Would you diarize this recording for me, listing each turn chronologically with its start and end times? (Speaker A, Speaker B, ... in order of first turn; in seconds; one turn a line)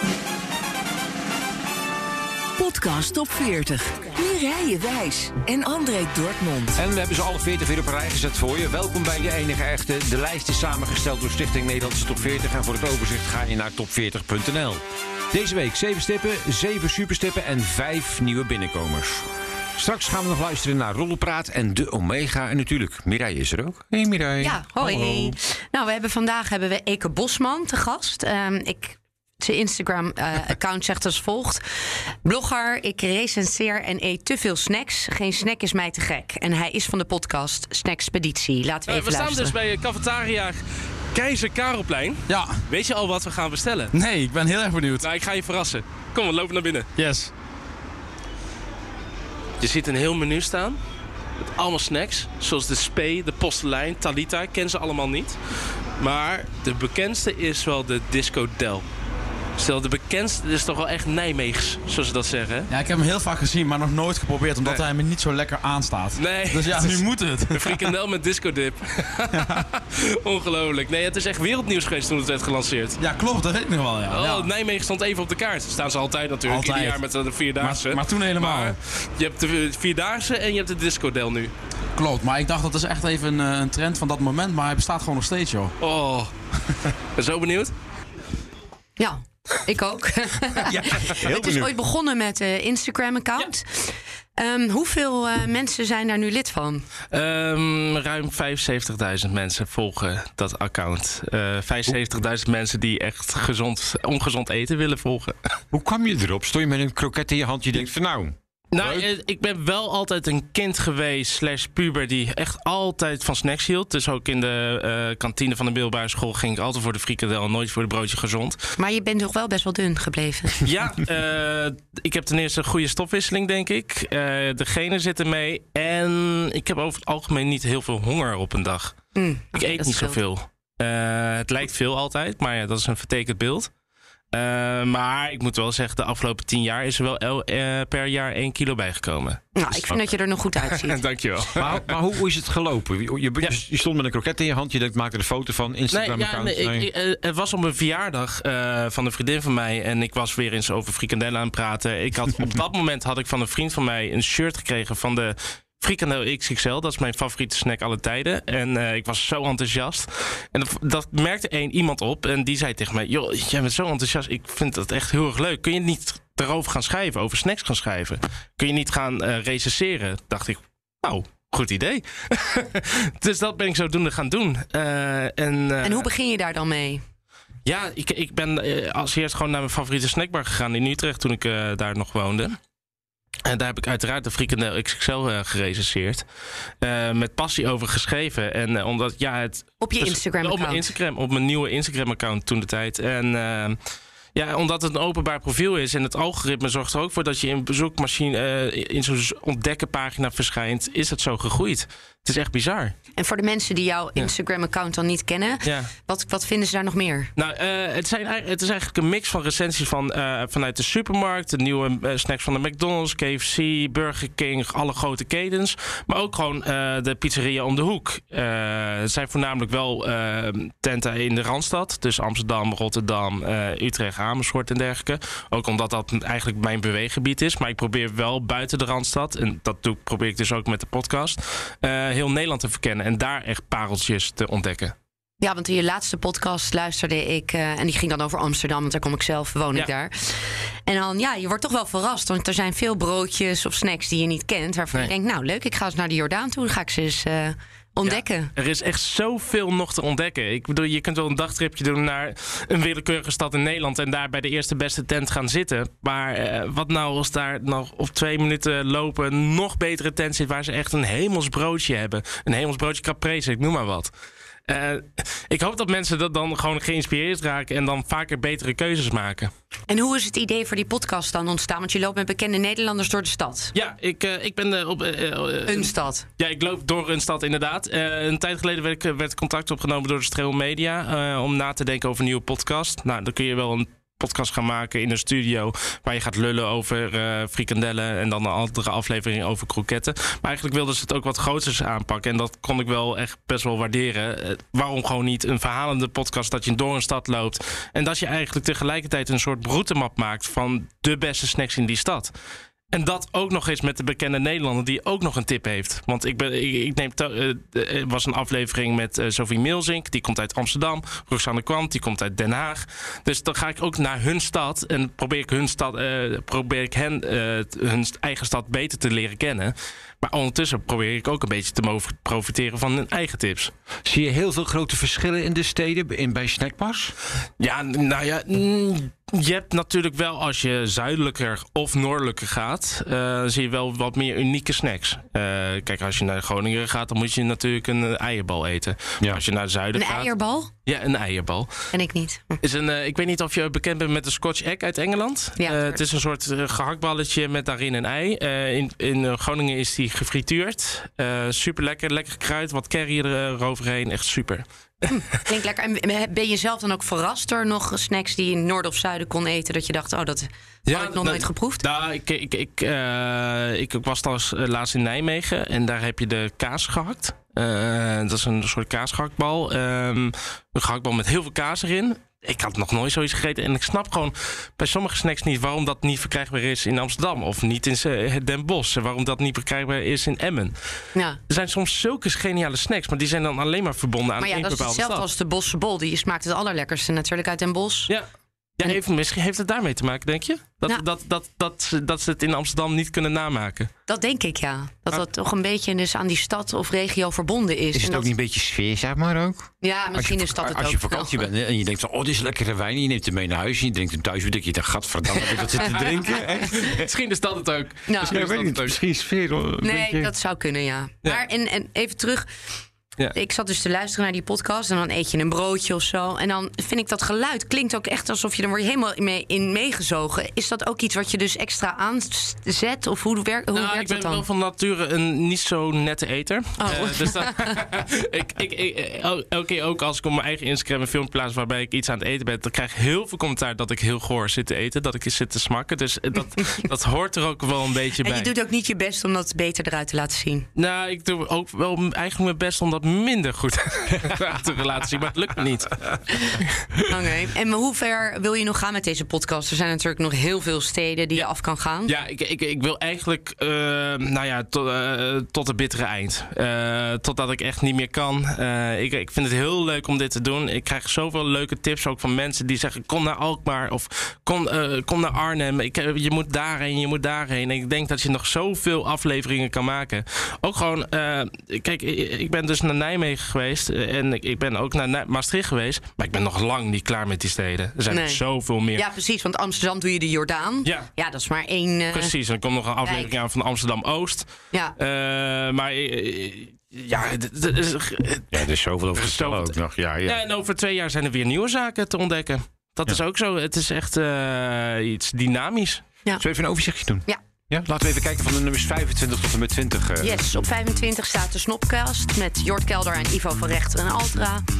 Speaker A: 2.6-6.7
Speaker B: 6.8-25.4
Speaker C: 24.4-31.6
Speaker C: 32.2-39.6
Speaker D: 38.9-43.9
Speaker E: 42.3-42.6
Speaker E: 43.9-45.1
Speaker D: 45.0-46.9
Speaker E: 47.0-47.3
Speaker D: 49.6-50.8
Speaker D: 51.5-58.9
Speaker D: 59.6-62.7
Speaker E: 62.7-67.9
Speaker D: 66.2-73.0
Speaker E: 69.3-69.6
Speaker E: 73.0-74.5
Speaker D: 74.1-81.5
Speaker E: 76.5-77.0
Speaker E: 77.6-78.8
Speaker E: 82.0-85.7
Speaker D: 85.8-86.3
Speaker D: 87.2-87.7
Speaker C: 89.0-96.9
Speaker B: 90.8-91.7
Speaker D: 97.1-105.6
Speaker B: 105.7-109.1
Speaker D: 108.7-118.7
Speaker C: 118.8-120.6
Speaker D: 120.6-128.9
Speaker C: 129.1-130.2
Speaker D: 129.5-133.7
Speaker D: 134.3-141.8
Speaker C: 139.6-141.1
Speaker B: 141.6-146.9
Speaker D: 145.9-176.1
Speaker C: 175.8-177.0
Speaker D: 177.7-182.6
Speaker D: 183.4-186.3
Speaker D: 186.8-193.8
Speaker C: 189.8-190.9
Speaker D: 194.3-202.9
Speaker C: 203.2-207.3
Speaker D: 205.6-205.9
Speaker D: 207.4-234.9
Speaker C: 235.4-248.5
Speaker D: 248.0-264.1
Speaker D: 264.7-269.5
Speaker C: 269.9-273.8
Speaker D: 273.7-302.3
Speaker C: 275.7-276.3
Speaker D: 302.9-323.7
Speaker B: 324.1-327.1
Speaker D: 327.6-340.3
Speaker C: 339.9-340.7
Speaker D: 340.9-341.9
Speaker C: 341.9-342.6
Speaker D: 342.6-355.4
Speaker C: 345.6-346.0
Speaker C: 355.1-361.8
Speaker D: 360.9-381.0
Speaker C: 381.1-381.4
Speaker D: 381.5-385.3
Speaker C: 384.4-388.1
Speaker D: 388.8-393.9
Speaker C: 394.1-398.3
Speaker B: 397.9-407.1
Speaker C: 399.8-401.4
Speaker D: 405.6-409.0
Speaker C: 408.1-408.4
Speaker B: 408.2-410.3
Speaker C: 409.8-412.5
Speaker C: 413.3-424.4
Speaker D: 423.7-438.5
Speaker C: 426.8-427.8
Speaker C: 438.2-440.7
Speaker D: 440.8-447.0
Speaker C: 447.0-452.1
Speaker D: 452.1-479.1
Speaker C: 478.1-482.4
Speaker D: 480.8-481.1
Speaker D: 482.1-496.0
Speaker C: 483.0-483.4
Speaker C: 484.7-485.0
Speaker B: 488.5-490.4
Speaker B: 496.4-500.4
Speaker C: 500.2-504.6